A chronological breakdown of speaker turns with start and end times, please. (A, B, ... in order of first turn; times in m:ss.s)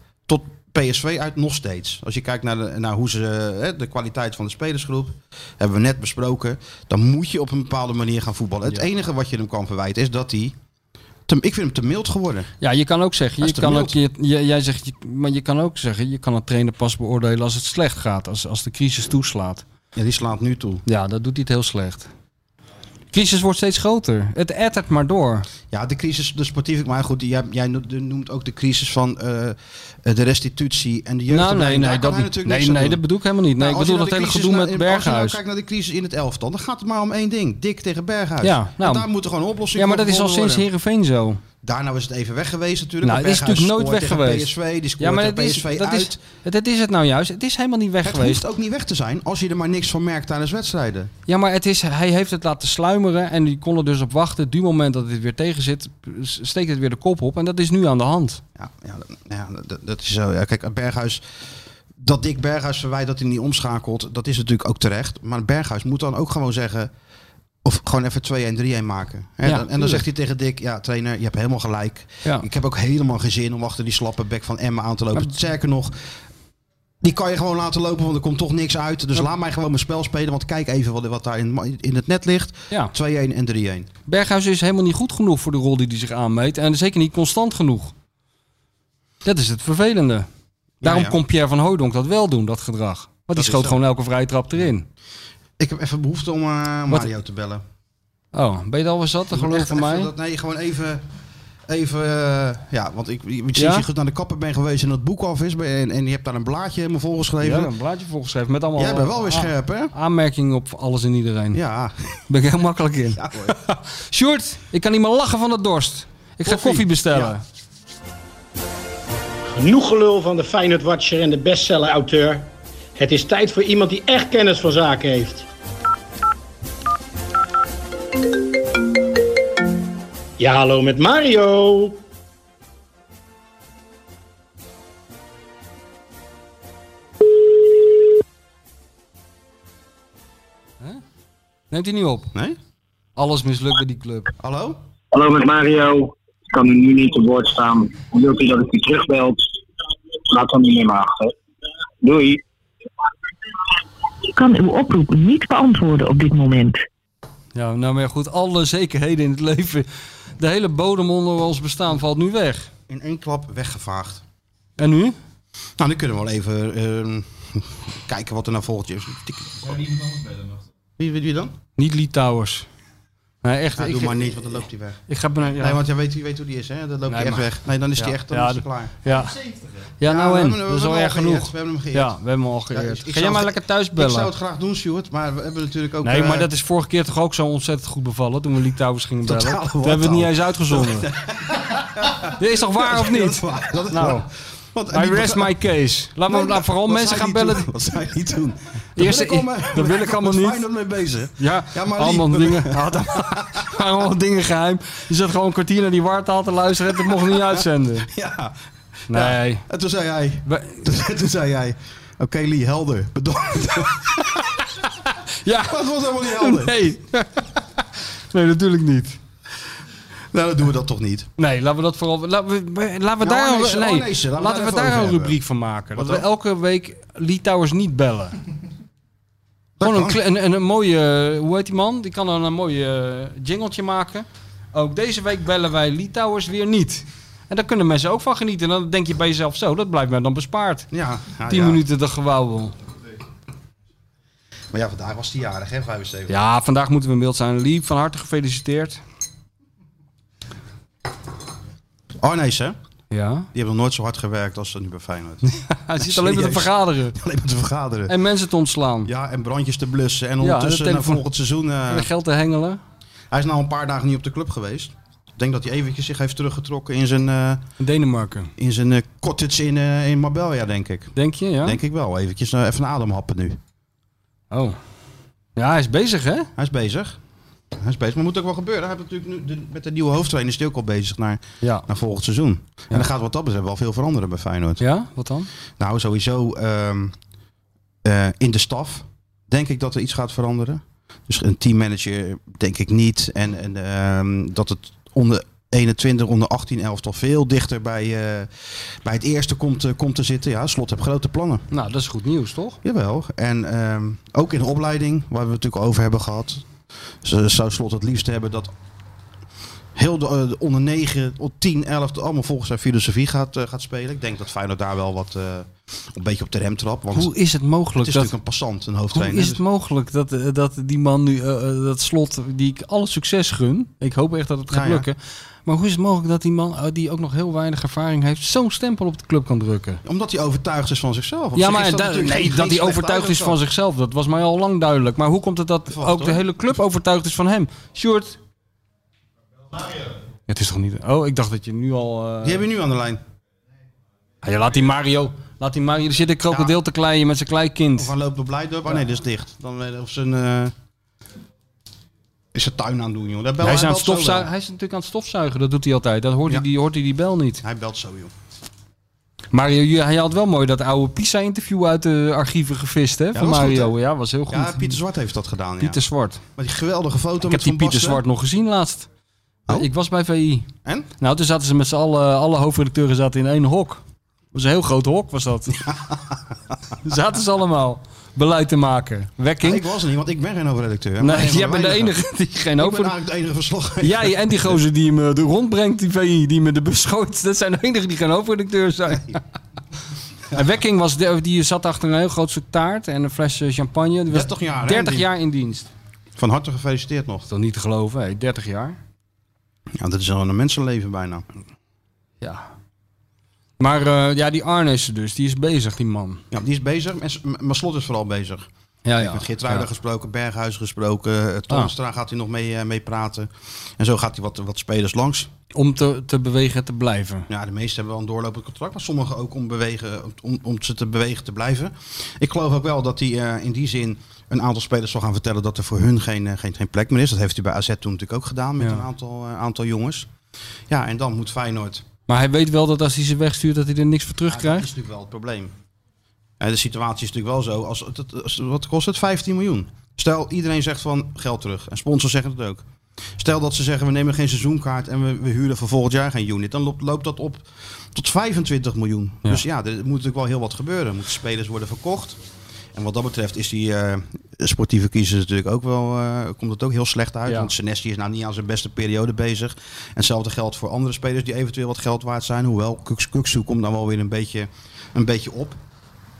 0:00.3-0:10.6 A
0:11.3-0:12.5 A
0:12.6-0:19.6 B
0:13.4-0:14.0 A
0:19.9-0:20.8 A
0:20.9-0:22.1 B
0:23.1-0:25.5 B
0:25.7-0:33.0 A
0:31.3-0:35.4 B
0:33.6-0:40.7 A
0:38.4-0:39.1 B
0:39.8-0:41.4 B
0:41.6-0:46.2 A
0:43.0-0:48.4 B
0:48.0-0:51.1 A
0:51.3-0:58.4 B
0:58.6-1:01.2 A
1:02.0-1:06.9 A
1:07.6-1:15.9 A
1:09.4-1:10.0 B
1:17.0-1:23.9 A
1:24.1-1:27.9 B
1:29.2-1:30.3 B
1:30.8-1:31.2 A
1:30.8-1:34.9 B
1:33.4-1:33.8 A
1:35.6-1:37.6 A
1:38.3-1:40.1 B
1:39.3-1:41.0 A
1:41.7-1:47.7 A
1:43.6-1:43.9 B
1:47.4-1:51.6 B
1:48.8-1:49.9 A
1:51.5-1:52.2 A
1:52.3-1:57.4 B
1:53.2-1:53.6 A
1:56.4-1:57.4 A
1:59.6-2:05.4 C
2:10.4-2:12.0 C
2:21.7-2:22.3 B
2:23.2-2:24.3 B
2:24.4-2:24.8 A
2:25.1-2:29.4 D
2:30.3-2:31.3 D
2:32.0-2:32.4 D
2:34.4-2:36.8 E
2:37.6-2:39.9 B
2:40.4-2:42.7 B
2:42.9-2:44.2 A
2:44.8-2:45.2 B
2:45.8-2:49.8 A
2:51.0-2:51.5 A
2:51.8-2:52.7 B
2:53.4-2:55.8 B
2:53.8-2:55.0 A
2:55.6-2:59.0 A
2:57.1-2:59.4 B
3:00.0-3:04.3 B
3:00.0-3:02.2 A
3:02.7-3:06.5 A
3:06.0-3:11.1 B
3:09.2-3:15.5 A
3:12.3-3:14.3 B
3:14.9-3:17.7 B
3:16.3-3:23.7 A
3:19.0-3:20.7 B
3:21.4-3:28.1 B
3:27.1-3:28.6 A
3:29.1-3:29.6 B
3:29.1-3:34.5 A
3:30.4-3:30.8 B
3:34.2-3:39.2 B
3:35.5-3:36.9 A
3:40.3-3:41.3 A
3:41.4-3:48.4 B
3:43.2-3:45.4 A
3:45.9-3:46.3 A
3:49.8-3:50.2 A
3:49.8-4:00.9 B
4:00.9-4:01.8 A
4:01.5-4:02.7 B
4:04.7-4:06.3 A
4:06.3-4:09.0 B
4:12.2-4:12.8 A
4:13.1-4:13.5 B
4:13.5-4:15.5 A
4:15.4-4:17.1 B
4:16.0-4:18.2 A
4:18.1-4:19.1 B
4:19.0-4:22.1 A
4:20.4-4:21.2 B
4:21.9-4:22.8 B
4:23.3-4:27.6 A
4:27.8-4:28.5 B
4:28.6-4:33.6 A
4:31.2-4:31.8 B
4:34.5-4:34.8 B
4:35.6-4:36.5 B
4:36.6-4:37.2 A
4:37.7-4:44.8 A
4:44.8-4:45.5 B
4:45.8-4:47.1 A
4:48.0-5:01.7 A
5:01.7-5:02.8 B
5:02.8-5:06.7 A
5:07.2-5:08.7 A
5:10.0-5:17.3 A
5:17.1-5:18.3 B
5:18.0-5:19.6 A
5:19.1-5:30.0 B
5:24.7-5:25.1 A
5:30.0-5:33.6 A
5:31.6-5:38.4 B
5:35.9-5:36.4 A
5:40.5-5:42.6 B
5:42.4-5:43.2 A
5:44.4-5:48.1 B
5:46.5-5:46.8 A
5:48.0-5:50.7 A
5:52.5-5:54.5 A
5:53.6-5:57.6 B
5:57.6-5:58.3 A
5:59.5-6:05.0 B
6:03.3-6:03.9 A
6:04.5-6:06.0 A
6:05.8-6:06.4 B
6:06.6-6:08.2 A
6:07.4-6:09.1 B
6:09.7-6:10.7 B
6:11.2-6:15.8 B
6:15.8-6:16.4 A
6:17.0-6:19.8 B
6:19.6-6:22.2 A
6:21.2-6:23.1 B
6:22.8-6:24.8 A
6:24.0-6:29.4 B
6:30.5-6:35.9 B
6:34.3-6:35.3 A
6:36.4-6:37.5 A
6:37.5-6:39.0 B
6:40.0-6:41.4 A
6:43.8-6:46.4 B
6:46.5-6:55.5 A
6:49.1-6:49.9 B
6:55.7-6:57.5 B
6:57.5-7:10.3 A
7:10.9-7:12.0 A
7:12.3-7:14.9 B
7:14.5-7:15.7 A
7:16.6-7:22.8 A
7:23.4-7:32.4 A
7:33.0-7:45.8 A